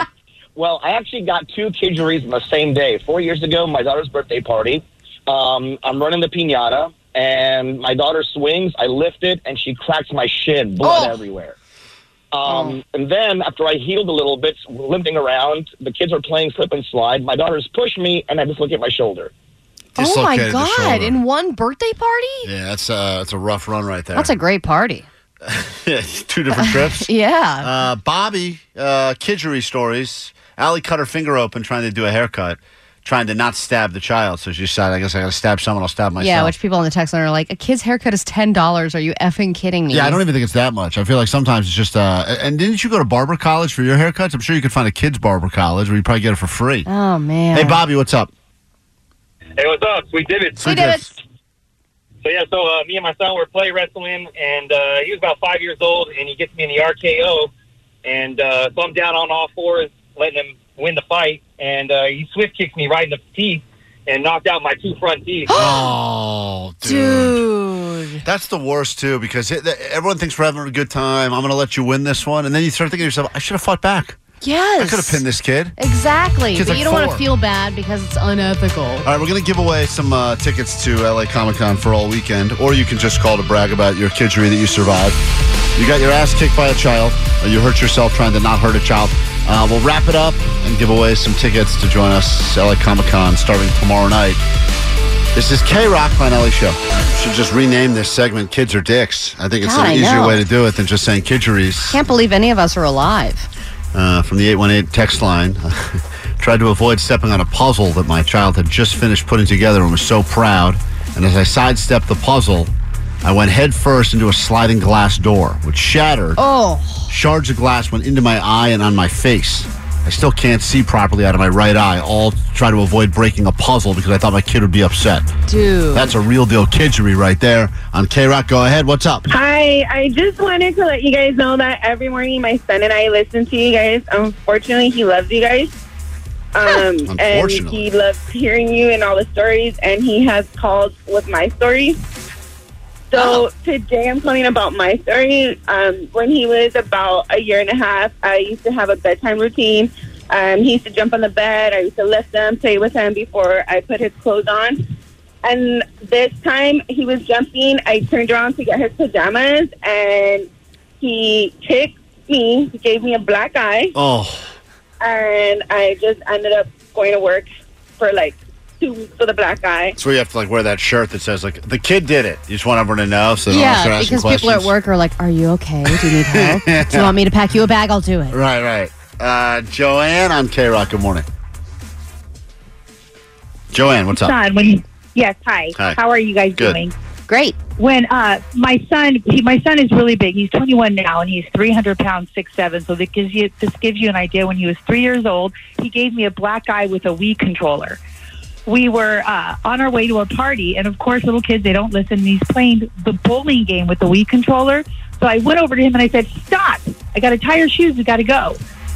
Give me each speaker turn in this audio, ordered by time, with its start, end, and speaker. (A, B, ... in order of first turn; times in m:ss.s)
0:00.6-0:11.6 A
0:10.8-0:11.2 B
0:12.3-0:19.3 A
0:12.4-0:12.8 B
0:20.0-0:21.2 C
0:20.0-0:22.5 B
0:22.4-0:24.3 C
0:24.1-0:25.1 B
0:25.4-0:27.1 C
0:26.5-0:27.7 B
0:27.6-0:36.5 C
0:36.2-0:40.2 B
0:39.9-0:46.9 C
0:46.9-0:47.8 B
0:47.5-0:48.3 C
0:49.6-0:50.7 D
0:50.6-0:51.1 C
0:50.6-0:51.2 B
0:52.2-0:57.5 D
0:58.0-1:05.5 D
1:05.5-1:05.9 B
1:05.5-1:07.4 C
1:06.8-1:08.2 B
1:08.2-1:14.2 C
1:14.4-1:15.2 B
1:14.8-1:15.8 C
1:15.8-1:19.1 B
1:16.5-1:17.2 C
1:19.0-1:25.2 C
1:25.8-1:34.4 C
1:35.3-1:42.0 C
1:39.6-1:40.4 B
1:41.9-1:43.5 B
1:43.9-1:52.7 C
1:53.2-1:56.4 C
1:56.4-1:57.1 B
1:57.1-2:05.3 C
2:05.5-2:06.1 B
2:05.9-2:09.3 C
2:09.3-2:15.7 E
2:16.5-2:22.0 E
2:17.0-2:17.9 C
2:23.1-2:34.9 E
2:23.2-2:23.4 B
2:35.4-2:40.5 E
2:41.0-2:43.9 E
2:43.9-2:44.5 C
2:45.0-2:47.5 E
2:48.0-2:50.0 E
2:50.0-2:54.7 C
2:53.5-2:58.4 B
2:55.9-2:57.1 C
2:58.3-3:01.2 C
3:03.7-3:04.4 C
3:04.1-3:06.9 F
3:06.5-3:06.8 C
3:07.3-3:07.6 B
3:07.8-3:18.0 F
3:18.7-3:28.6 F